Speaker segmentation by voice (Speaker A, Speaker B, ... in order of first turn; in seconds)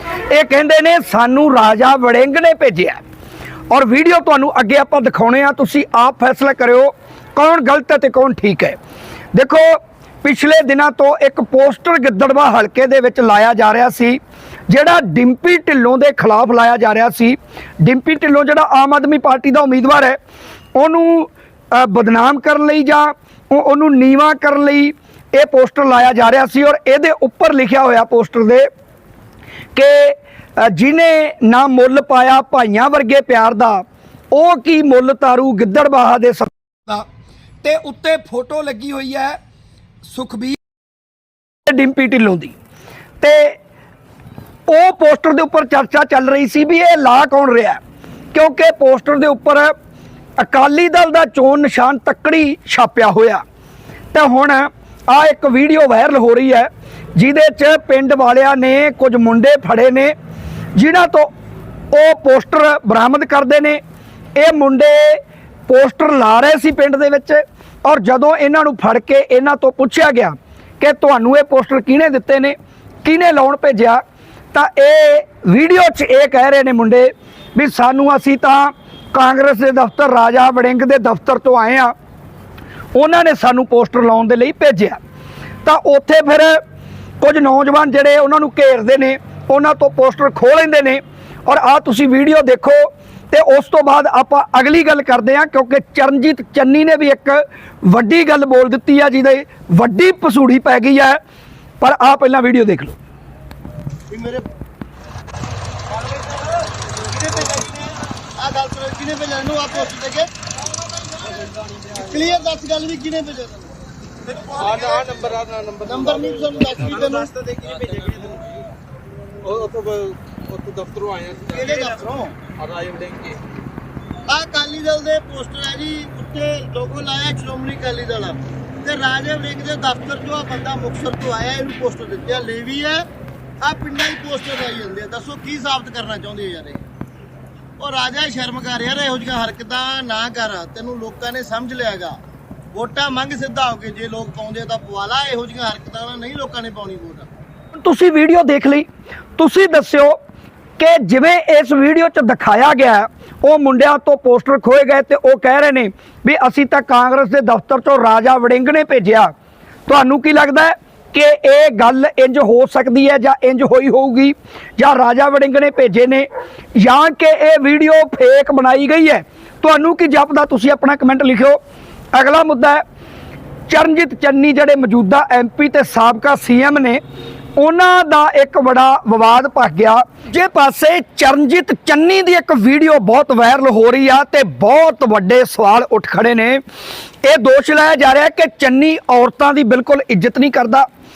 Speaker A: 0.3-3.0, 3.7-8.8, 9.3-14.2, 14.7-20.2, 20.8-28.7, 29.7-37.0, 37.6-39.4, 40.0-40.6, 41.7-42.5, 43.2-43.6, 44.7-47.8, 48.3-49.7, 50.4-53.4, 54.1-60.1, 60.8-61.3, 61.9-63.8, 64.3-74.0, 74.5-81.9, 82.9-85.0, 85.6-86.6, 87.2-101.2, 101.8-103.0, 147.7-148.8, 149.4-150.2, 150.8-159.3, 159.9-171.6, 172.1-172.8, 173.7-177.0, 177.6-186.6, 187.2-190.9
Speaker B: 104.1-104.4, 106.0-110.3, 111.3-113.7, 114.3-115.0, 115.8-117.4, 121.5-122.5, 124.3-133.0, 133.6-136.9, 137.8-142.2, 142.7-147.3
Speaker C: 114.6-116.0, 117.4-118.4, 119.4-121.6, 122.6-123.4